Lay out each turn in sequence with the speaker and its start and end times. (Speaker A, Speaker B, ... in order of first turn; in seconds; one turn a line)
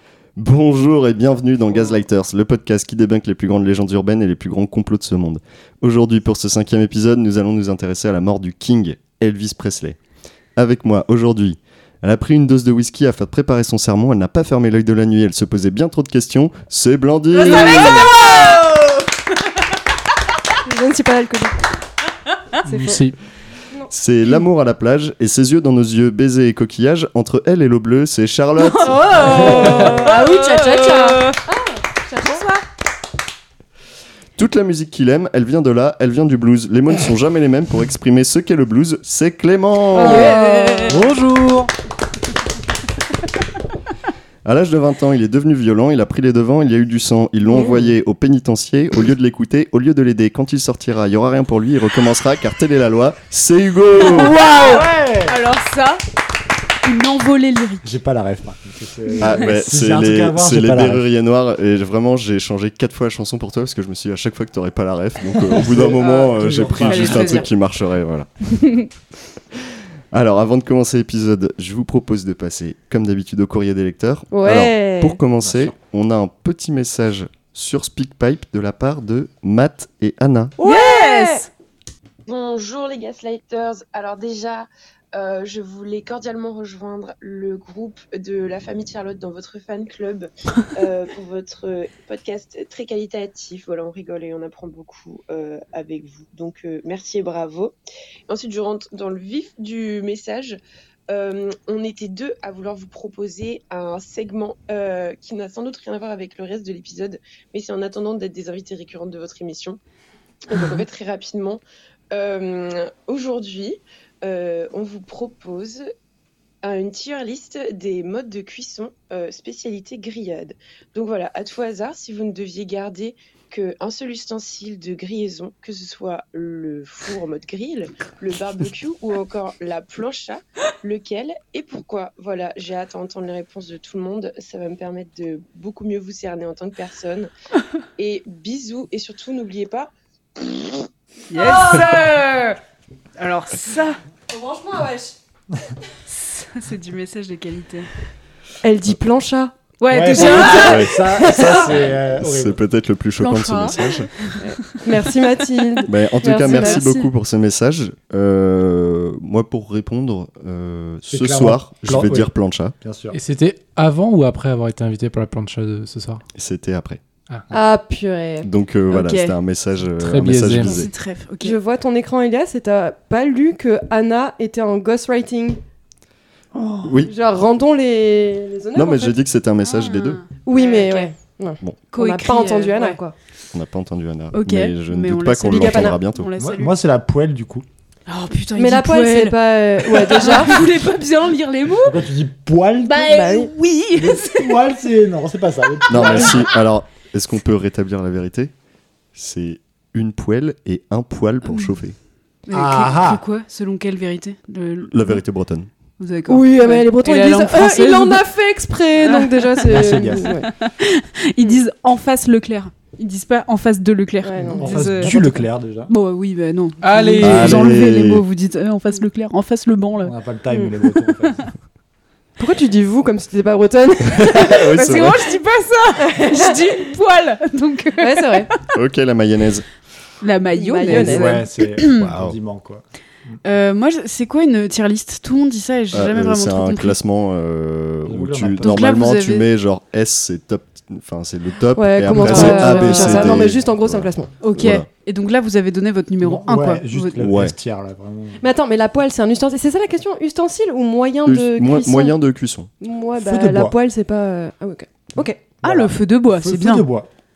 Speaker A: 0.3-10.0
Speaker A: 10.6-18.2
Speaker B: 17.4-18.1
Speaker C: 17.4-18.0
Speaker B: 20.6-21.6
Speaker D: 22.6-23.1
Speaker B: 22.6-23.0
Speaker A: 23.9-29.8
Speaker C: 28.6-31.4
Speaker B: 28.8-32.5
Speaker D: 29.6-30.0
Speaker C: 32.2-32.6
Speaker A: 34.4-40.4
Speaker B: 39.9-41.0
Speaker C: 39.9-41.0
Speaker D: 40.9-41.7
Speaker A: 44.4-54.6
Speaker C: 54.2-56.0
Speaker E: 54.4-55.4
Speaker C: 56.8-57.9
Speaker E: 57.8-61.0
Speaker A: 59.2-68.9
Speaker E: 65.5-67.4
Speaker C: 66.0-67.5
Speaker A: 70.1-80.5
Speaker B: 74.3-75.2
Speaker B: 80.6-81.4
Speaker C: 80.6-81.5
Speaker F: 82.2-97.8
Speaker F: 98.3-109.8
Speaker F: 110.5-115.9
Speaker F: 116.6-137.3
Speaker F: 138.0-140.8
Speaker C: 141.3-142.6
Speaker C: 143.2-144.0
Speaker B: 144.3-145.1
Speaker C: 146.1-147.9
Speaker B: 148.6-149.5
Speaker C: 149.8-151.7
Speaker E: 149.9-152.6
Speaker B: 150.1-151.7
Speaker A: 150.6-154.1
Speaker C: 153.2-154.8
Speaker B: 154.4-156.8
Speaker A: 155.8-162.8
Speaker C: 156.2-157.1
Speaker E: 161.1-163.2
Speaker D: 163.1-166.2
Speaker A: 166.3-167.0
Speaker B: 167.5-168.5
Speaker A: 168.4-170.9
Speaker C: 168.9-169.3
Speaker D: 170.0-170.7
Speaker C: 170.6-171.6
Speaker B: 171.4-175.6
Speaker E: 176.5-176.9
Speaker A: 176.8-177.1
Speaker B: 177.0-179.2
Speaker A: 178.7-180.2
Speaker C: 179.6-181.1
Speaker B: 180.4-183.1
Speaker C: 181.9-183.0
Speaker A: 183.5-186.3
Speaker C: 184.3-186.7
Speaker B: 185.5-186.0
Speaker E: 186.4-187.7
Speaker C: 188.1-192.0
Speaker B: 188.5-190.7
Speaker E: 191.8-193.1
Speaker C: 192.8-194.6
Speaker B: 193.0-193.5
Speaker E: 193.9-196.5
Speaker A: 195.9-198.5
Speaker C: 195.9-196.3
Speaker A: 199.1-202.0
Speaker C: 202.5-205.2
Speaker E: 202.5-203.2
Speaker A: 204.9-205.7
Speaker C: 206.0-208.2
Speaker B: 206.3-210.5
Speaker C: 209.0-220.1
Speaker E: 209.6-210.3
Speaker B: 214.2-215.1
Speaker E: 214.4-215.9
Speaker D: 216.8-217.3
Speaker A: 217.2-218.2
Speaker E: 217.2-217.7
Speaker E: 220.0-221.5
Speaker B: 222.4-224.7
Speaker A: 224.3-225.2
Speaker C: 224.3-228.6
Speaker B: 226.0-226.7
Speaker B: 228.0-228.5
Speaker A: 228.7-229.7
Speaker C: 230.2-232.1
Speaker B: 230.5-231.4
Speaker E: 230.9-233.3
Speaker C: 233.4-236.9
Speaker A: 235.9-244.9
Speaker E: 238.1-238.8
Speaker C: 238.6-239.5
Speaker B: 241.7-244.3
Speaker E: 242.1-243.5
Speaker C: 242.2-243.4
Speaker C: 244.4-247.2
Speaker E: 246.2-248.4
Speaker A: 247.2-247.5
Speaker B: 248.4-252.1
Speaker A: 251.2-252.7
Speaker B: 252.8-255.6
Speaker E: 253.2-253.8
Speaker E: 255.6-257.1
Speaker C: 255.6-256.9